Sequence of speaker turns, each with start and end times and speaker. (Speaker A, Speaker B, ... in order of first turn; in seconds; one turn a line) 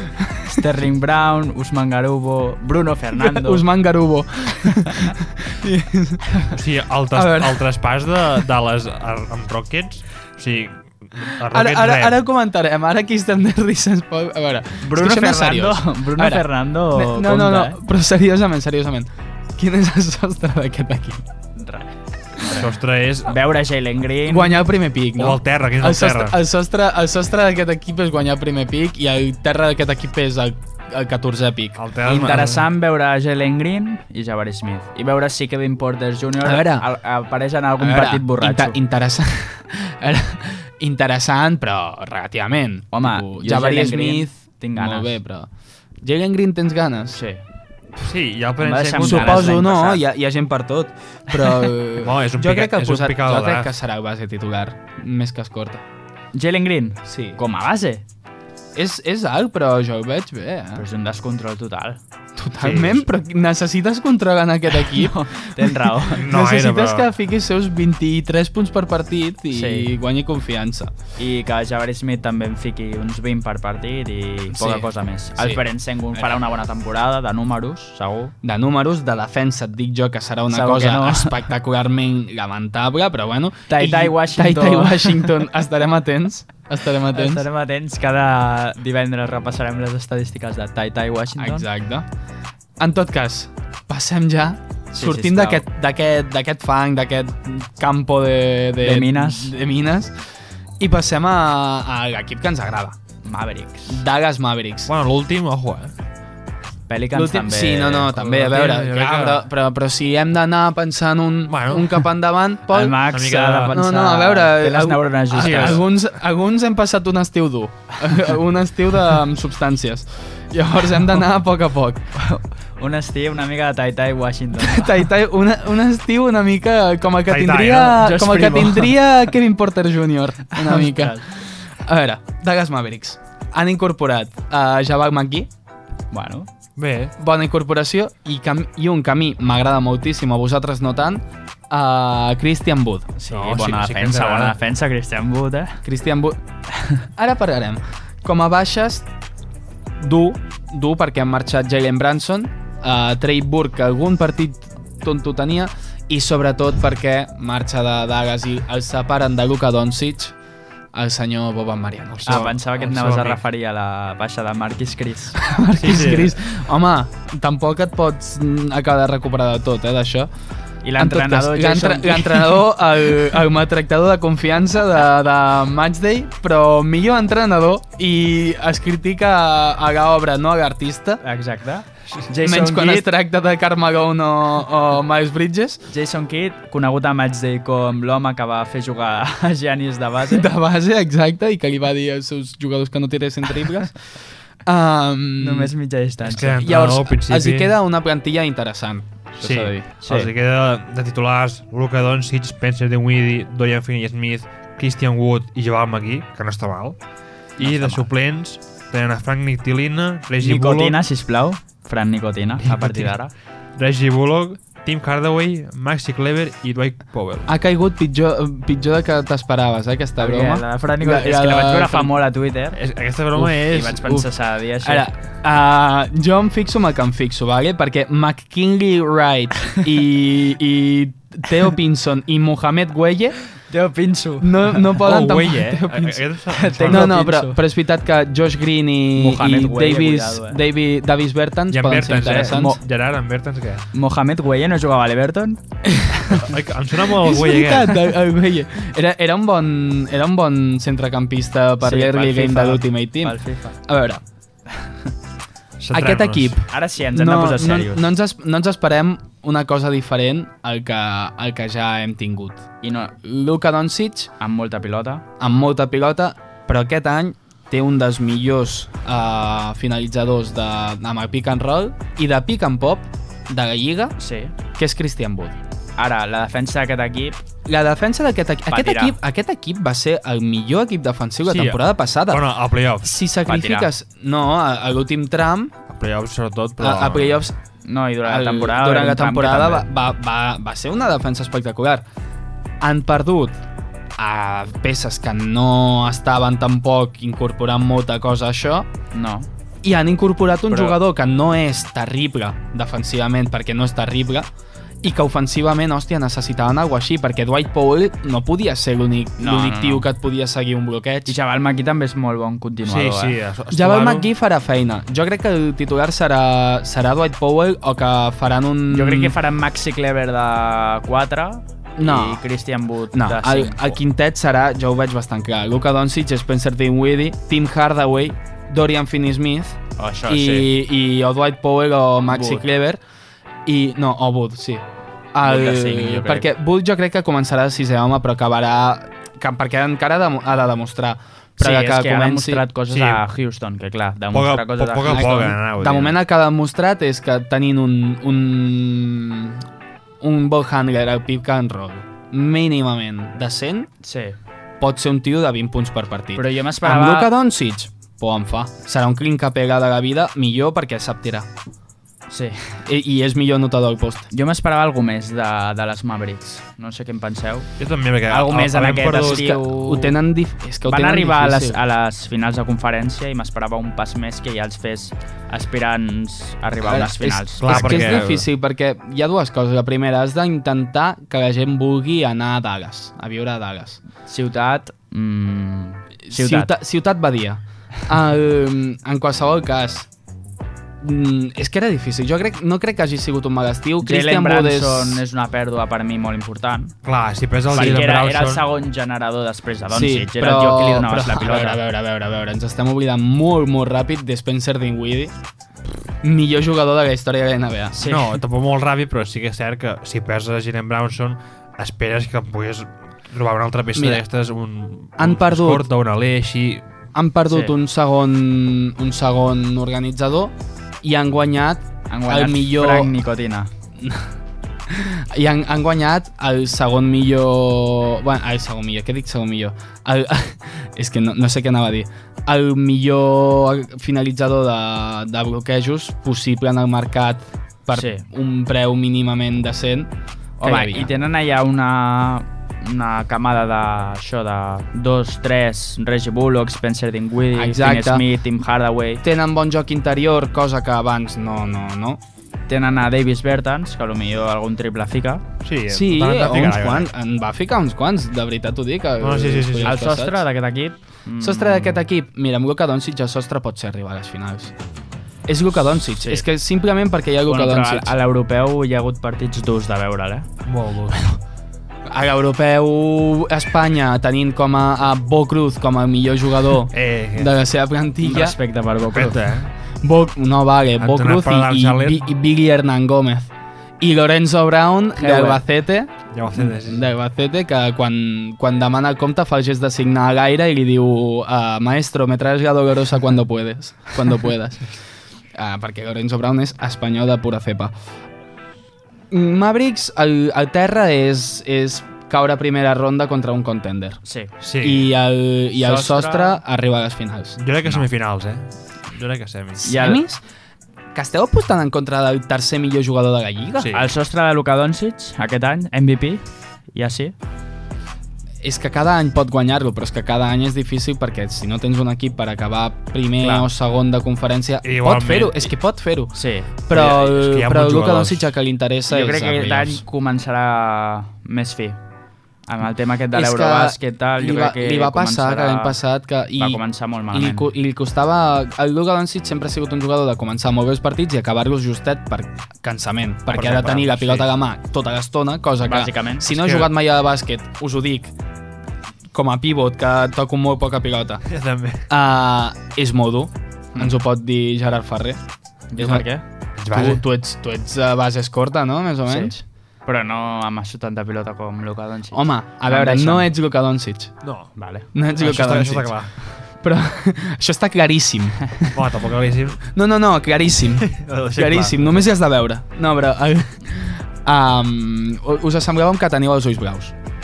Speaker A: 0.3-3.6
Speaker B: 3.1-6.3
Speaker C: 6.5-12.2
Speaker B: 7.1-7.7
Speaker B: 11.5-21.2
Speaker A: 14.8-17.8
Speaker A: 21.6-22.7
Speaker C: 22.5-23.4
Speaker A: 23.3-24.6
Speaker B: 24.3-31.8
Speaker C: 25.2-26.4
Speaker C: 31.8-32.7
Speaker A: 32.0-38.8
Speaker B: 36.4-36.9
Speaker B: 37.8-45.5
Speaker A: 42.9-45.2
Speaker B: 46.0-47.2
Speaker A: 47.1-47.4
Speaker C: 48.0-49.6
Speaker A: 48.6-50.0
Speaker B: 49.0-55.8
Speaker C: 52.0-53.7
Speaker A: 56.3-58.0
Speaker B: 57.0-57.4
Speaker B: 58.8-60.8
Speaker A: 60.8-62.0
Speaker B: 62.4-70.9
Speaker C: 62.6-63.0
Speaker A: 64.8-66.3
Speaker C: 66.1-67.1
Speaker A: 69.5-69.9
Speaker A: 71.2-78.3
Speaker B: 74.5-76.4
Speaker B: 78.4-87.5
Speaker A: 80.5-81.5
Speaker A: 83.7-85.4
Speaker A: 87.1-91.7
Speaker B: 91.3-92.1
Speaker B: 92.8-100.1
Speaker A: 95.0-95.7
Speaker A: 98.8-99.6
Speaker B: 100.8-103.0
Speaker A: 103.2-104.0
Speaker B: 103.9-104.9
Speaker C: 104.9-105.9
Speaker A: 106.9-108.5
Speaker B: 107.1-113.0
Speaker C: 108.3-109.5
Speaker C: 111.5-112.0
Speaker A: 112.7-115.8
Speaker C: 113.1-113.7
Speaker B: 113.7-122.0
Speaker C: 115.3-115.9
Speaker A: 122.2-125.0
Speaker B: 124.6-135.5
Speaker C: 127.3-128.1
Speaker A: 128.0-129.0
Speaker A: 130.6-131.3
Speaker A: 136.1-136.5
Speaker C: 136.8-137.1
Speaker B: 137.2-143.1
Speaker A: 143.2-145.8
Speaker C: 143.3-144.6
Speaker B: 145.8-146.4
Speaker A: 146.7-147.0
Speaker B: 147.2-149.1
Speaker B: 150.0-160.3
Speaker B: 160.9-162.5
Speaker C: 162.2-163.4
Speaker A: 162.3-165.4
Speaker B: 165.4-170.3
Speaker C: 165.8-166.3
Speaker A: 170.8-172.6
Speaker B: 171.0-181.2
Speaker A: 181.2-183.1
Speaker B: 182.4-185.8
Speaker A: 185.9-190.5
Speaker B: 190.3-193.9
Speaker B: 194.7-195.7
Speaker A: 195.4-196.6
Speaker C: 196.2-197.7
Speaker B: 196.5-199.9
Speaker C: 199.4-207.0
Speaker A: 200.0-200.3
Speaker C: 207.6-211.0
Speaker B: 207.6-208.0
Speaker A: 207.7-208.1
Speaker A: 210.4-213.3
Speaker C: 212.6-213.2
Speaker C: 213.8-217.5
Speaker B: 217.5-222.2
Speaker A: 220.2-222.8
Speaker C: 222.8-224.1
Speaker B: 223.3-224.3
Speaker A: 223.7-225.1
Speaker B: 224.8-233.4
Speaker A: 233.7-234.9
Speaker B: 234.4-236.3
Speaker C: 235.0-237.1
Speaker A: 236.5-237.6
Speaker B: 236.9-242.8
Speaker A: 239.2-240.6
Speaker C: 241.7-243.9
Speaker A: 242.3-242.8
Speaker A: 243.9-245.6
Speaker B: 245.9-246.5
Speaker A: 246.2-246.5
Speaker C: 246.3-248.1
Speaker B: 247.1-254.2
Speaker A: 251.8-253.8
Speaker C: 255.8-256.6
Speaker B: 255.9-262.6
Speaker A: 256.7-258.1
Speaker A: 262.8-263.2
Speaker B: 263.2-264.3
Speaker A: 264.4-265.2
Speaker B: 265.4-274.1
Speaker A: 274.2-274.6
Speaker B: 274.7-275.6
Speaker A: 276.0-277.4
Speaker B: 277.7-282.5
Speaker A: 278.7-279.2
Speaker C: 281.5-283.2
Speaker B: 283.0-285.7
Speaker A: 283.4-283.9
Speaker C: 285.9-287.4
Speaker B: 286.8-287.6
Speaker A: 287.9-289.9
Speaker B: 288.2-292.1
Speaker B: 292.8-293.6
Speaker B: 294.2-298.9
Speaker A: 299.1-299.5
Speaker B: 299.8-304.5
Speaker A: 300.7-301.0
Speaker B: 305.0-311.4
Speaker A: 309.4-310.1
Speaker A: 311.3-313.4
Speaker C: 312.9-314.3
Speaker B: 313.7-319.3
Speaker A: 318.9-324.0
Speaker B: 322.0-322.4
Speaker B: 323.1-333.0
Speaker A: 330.0-330.7
Speaker A: 332.3-332.6
Speaker B: 333.7-334.8
Speaker B: 335.3-342.6
Speaker A: 335.4-336.5
Speaker A: 341.6-345.5
Speaker C: 342.9-343.2
Speaker C: 344.3-346.2
Speaker B: 345.1-349.6
Speaker B: 350.2-353.9
Speaker A: 354.0-354.4
Speaker B: 354.8-361.5
Speaker A: 356.4-357.3
Speaker A: 362.3-362.8
Speaker B: 362.9-364.3
Speaker A: 364.3-367.7
Speaker C: 367.8-369.6
Speaker A: 368.3-370.2
Speaker B: 369.1-371.8
Speaker A: 370.9-378.2
Speaker B: 376.8-384.0
Speaker C: 377.6-378.5
Speaker A: 384.2-386.7
Speaker B: 386.3-390.1
Speaker B: 391.0-395.2
Speaker A: 394.0-396.9
Speaker C: 397.0-398.7
Speaker A: 397.7-401.8
Speaker B: 397.7-398.1
Speaker B: 399.9-405.4
Speaker B: 406.2-408.0
Speaker A: 407.9-408.4
Speaker C: 408.0-416.8
Speaker B: 413.9-414.2
Speaker B: 415.2-415.9
Speaker B: 417.1-423.2
Speaker A: 417.5-417.8
Speaker A: 422.1-423.7
Speaker B: 424.0-424.3
Speaker B: 424.9-440.1
Speaker A: 437.9-438.2
Speaker A: 440.6-449.2
Speaker B: 440.6-441.1
Speaker B: 447.5-448.3
Speaker B: 449.2-452.2
Speaker A: 452.7-455.4
Speaker C: 455.6-457.1
Speaker B: 455.9-460.4
Speaker C: 459.2-460.0
Speaker A: 459.9-462.1
Speaker B: 461.4-464.7
Speaker B: 465.5-468.1
Speaker A: 467.4-470.5
Speaker C: 470.6-471.2
Speaker B: 472.1-478.6
Speaker C: 476.9-477.5
Speaker A: 478.2-479.4
Speaker C: 479.0-479.7
Speaker B: 480.0-494.8
Speaker C: 481.0-482.3
Speaker A: 485.2-485.6
Speaker C: 486.3-487.0
Speaker B: 495.6-497.9
Speaker B: 499.3-504.2
Speaker A: 504.2-504.5
Speaker C: 504.6-505.1
Speaker B: 504.8-507.6
Speaker A: 505.8-506.6
Speaker C: 507.6-510.1
Speaker A: 509.8-510.2
Speaker B: 509.9-510.4
Speaker B: 511.1-513.9
Speaker C: 513.8-514.1
Speaker A: 513.9-516.4
Speaker A: 517.0-517.4
Speaker B: 518.6-526.4
Speaker A: 523.4-523.7
Speaker C: 524.8-525.7
Speaker A: 526.3-526.8
Speaker B: 526.9-530.0
Speaker C: 526.9-528.5
Speaker A: 529.1-532.0
Speaker A: 532.7-536.0
Speaker B: 533.3-536.8
Speaker A: 536.6-537.7
Speaker B: 537.3-548.4
Speaker C: 543.5-544.5
Speaker A: 545.9-546.5
Speaker C: 546.5-546.9
Speaker B: 549.3-551.4
Speaker C: 551.5-552.1
Speaker B: 552.1-555.4
Speaker A: 555.9-556.4
Speaker B: 556.0-556.3
Speaker C: 556.8-557.2
Speaker B: 556.9-559.6
Speaker A: 559.3-563.5
Speaker B: 562.3-564.3
Speaker C: 564.4-564.7
Speaker A: 564.8-565.1
Speaker B: 565.1-566.2
Speaker C: 565.4-566.3
Speaker B: 566.8-569.0
Speaker C: 568.8-569.8
Speaker B: 569.8-577.1
Speaker C: 571.0-572.3